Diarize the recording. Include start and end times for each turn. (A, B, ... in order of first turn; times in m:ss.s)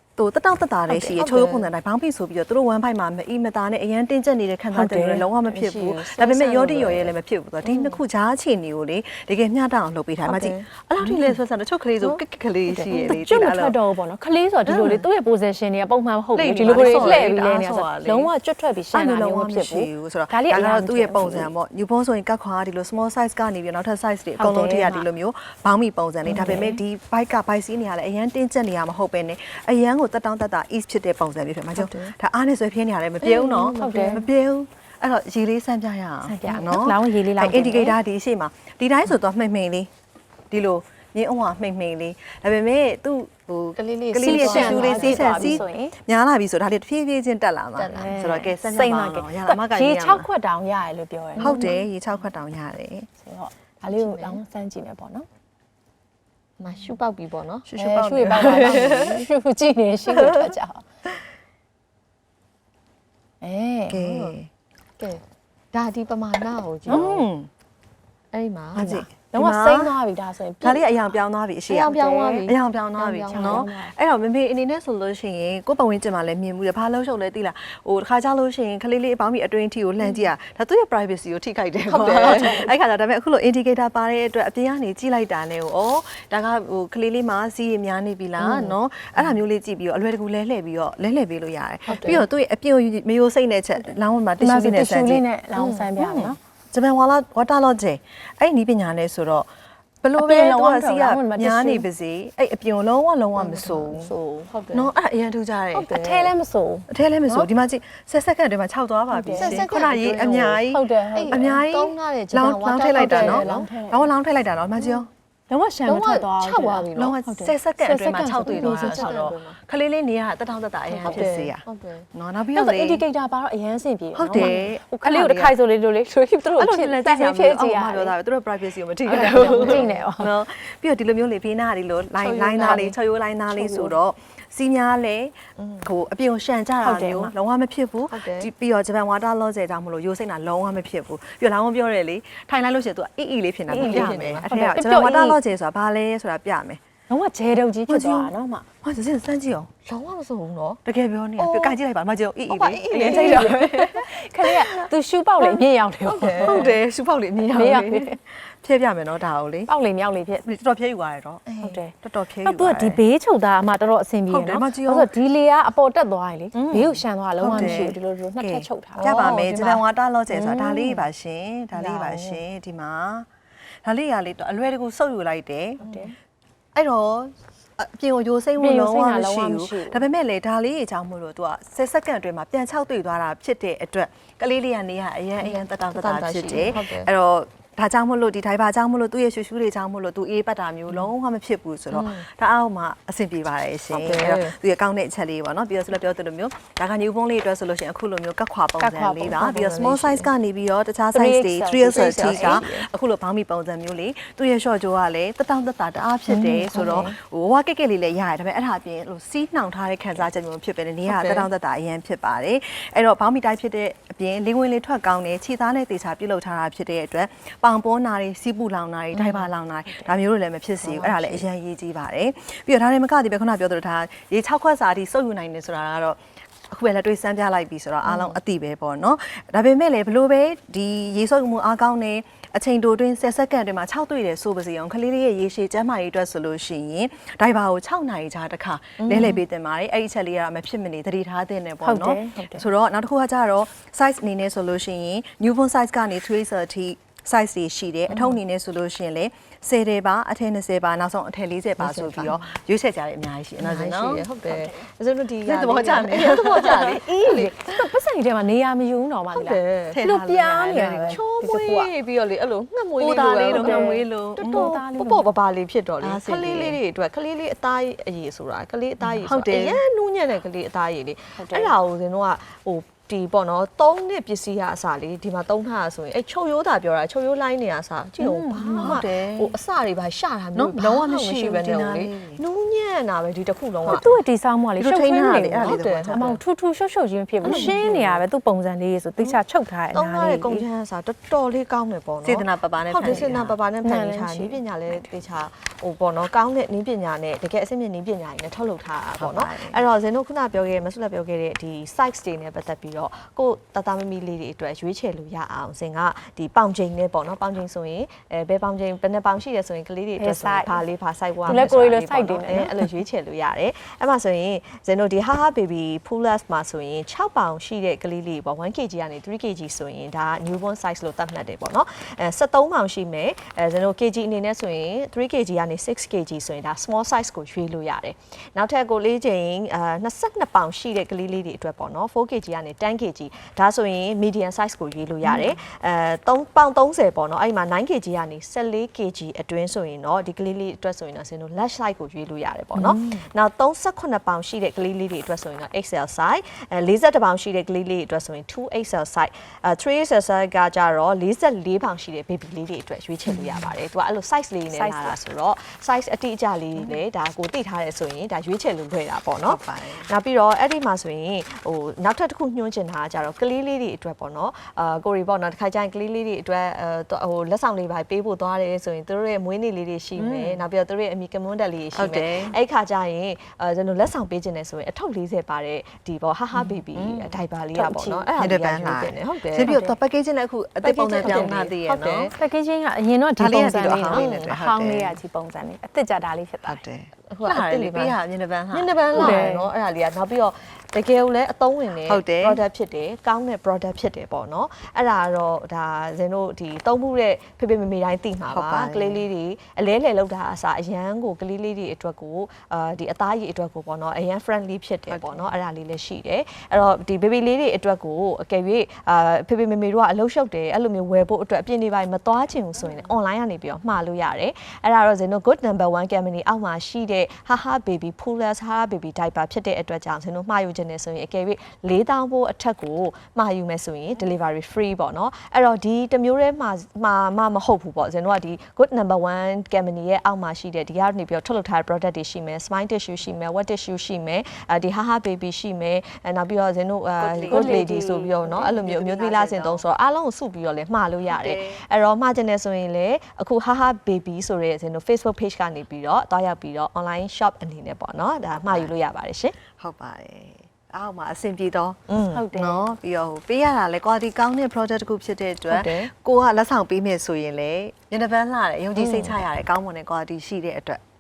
0:00.2-0:13.8 A
0:01.1-0:01.7 B
0:04.8-0:08.0 B
0:05.0-0:05.2 C
0:10.3-0:11.3 B
0:12.7-0:21.5 C
0:14.7-0:15.1 A
0:16.4-0:18.3 A
0:16.6-0:17.3 B
0:18.9-0:39.9 A
0:24.4-0:25.1 C
0:26.3-0:26.8 C
0:26.3-0:26.6 B
0:31.8-0:32.1 B
0:33.2-0:34.3 B
0:33.8-0:34.2 C
0:36.3-0:38.0 C
0:40.5-0:50.3 A
0:43.8-0:45.7 B
0:44.2-0:45.9 C
0:47.8-0:48.3 B
0:47.9-0:51.8 C
0:51.4-0:51.8 B
0:51.4-0:53.1 A
0:53.2-0:55.3 C
0:53.8-0:54.4 B
0:56.6-0:57.7 B
0:57.7-0:59.2 A
0:57.8-1:00.8 C
0:58.6-0:59.1 B
1:00.1-1:00.5 A
1:03.4-1:04.0 C
1:03.9-1:04.5 A
1:03.9-1:04.4 B
1:05.7-1:07.2 B
1:06.9-1:07.2 C
1:06.9-1:07.5 A
1:08.3-1:09.0 B
1:08.8-1:09.9 A
1:08.9-1:10.9 C
1:10.6-1:35.2 A
1:11.7-1:13.7 B
1:11.9-1:12.5 C
1:13.3-1:13.9 C
1:20.0-1:20.3 B
1:21.8-1:22.7 B
1:28.4-1:29.4 B
1:31.9-1:32.3 B
1:34.4-1:36.4 C
1:35.5-1:35.9 B
1:36.0-1:39.5 A
1:40.0-1:44.1 A
1:40.2-1:41.9 C
1:43.4-1:44.9 B
1:44.7-1:46.0 A
1:45.7-1:47.5 C
1:45.9-1:46.3 B
1:46.9-1:55.1 A
1:49.1-1:49.6 C
1:49.4-1:50.6 B
1:50.7-1:51.4 C
1:51.2-1:53.7 B
1:53.0-1:54.1 C
1:54.8-1:55.0 B
1:55.5-1:59.2 C
1:55.9-1:57.2 B
1:56.9-2:03.0 A
1:58.4-1:59.6 B
2:00.9-2:01.3 C
2:01.0-2:02.1 B
2:02.5-2:08.1 C
2:04.2-2:05.6 A
2:04.4-2:04.7 B
2:06.6-2:26.8 A
2:09.1-2:10.3 C
2:09.1-2:10.0 B
2:12.2-2:13.0 B
2:13.5-2:14.0 C
2:15.6-2:15.9 B
2:16.8-2:17.3 C
2:18.1-2:18.5 B
2:23.7-2:25.4 C
2:23.8-2:24.5 B
2:27.1-2:28.7 C
2:27.9-2:28.3 A
2:28.8-2:29.7 A
2:29.9-2:30.8 B
2:30.8-2:34.1 A
2:31.4-2:31.8 B
2:32.5-2:34.0 B
2:33.0-2:36.7 C
2:36.1-2:36.8 B
2:36.2-2:39.7 A
2:37.5-2:38.2 C
2:39.7-2:40.5 C
2:40.4-2:41.5 A
2:41.5-2:41.8 B
2:41.6-2:41.9 C
2:42.0-2:43.0 A
2:42.4-2:49.1 C
2:44.3-2:45.1 A
2:46.5-2:47.9 B
2:47.4-2:53.3 A
2:49.0-2:49.8 B
2:50.3-2:51.0 C
2:51.8-2:52.4 C
2:53.8-2:55.8 A
2:55.8-2:56.1 B
2:55.8-2:56.1 C
2:56.8-4:14.3 A
2:58.6-3:00.1 C
3:05.4-3:07.1 B
3:11.9-3:12.2 B
3:13.9-3:14.6 B
3:18.8-3:20.0 C
3:19.6-3:20.3 B
3:21.1-3:22.9 C
3:21.9-3:22.7 B
3:26.3-3:27.2 C
3:31.1-3:31.5 B
3:39.1-3:39.5 B
3:40.8-3:41.5 B
3:48.0-3:48.4 B
3:59.0-3:59.4 B
4:01.8-4:02.6 C
4:08.1-4:08.4 B
4:11.8-4:12.5 B
4:13.6-4:17.5 B
4:14.4-4:14.9 C
4:15.4-4:17.0 A
4:16.9-4:21.9 C
4:19.3-4:20.0 B
4:19.9-4:21.2 A
4:21.0-4:44.2 B
4:23.0-4:24.8 A
4:23.5-4:25.3 C
4:26.0-4:26.8 A
4:29.2-4:29.8 A
4:31.4-4:31.7 C
4:38.2-4:39.0 C
4:38.8-4:39.5 A
4:40.6-4:42.4 A
4:43.9-4:44.1 A
4:43.9-4:50.7 C
4:44.8-4:46.3 A
4:45.6-4:46.4 B
4:47.4-4:48.2 B
4:47.5-4:47.7 A
4:49.9-6:19.8 B
4:52.2-4:53.6 A
4:53.8-4:55.1 C
4:59.2-4:59.8 A
5:10.2-5:10.8 C
5:11.5-5:12.8 C
5:42.8-5:43.2 C
5:54.7-5:55.2 C
5:59.4-6:00.1 A
6:10.2-6:10.6 A
6:12.0-6:12.6 A
6:16.7-6:17.3 A
6:17.7-6:18.3 C
6:18.4-6:22.3 A
6:19.6-6:20.0 C
6:20.8-6:22.3 B
6:21.2-6:21.5 C
6:22.3-6:26.8 C
6:23.4-6:25.2 A
6:23.9-6:24.5 B
6:26.6-6:29.6 A
6:27.3-6:28.2 B
6:28.7-7:29.6 B
6:29.1-6:29.7 C
6:32.0-6:32.6 A
6:38.5-6:39.2 A
6:45.1-6:45.5 A
7:17.2-7:19.9 A
7:17.5-7:18.4 C
7:21.3-7:21.8 A
7:29.8-7:41.0 A
7:32.1-7:32.5 B
7:32.3-7:32.9 C
7:35.7-7:36.1 B
7:39.0-7:39.4 B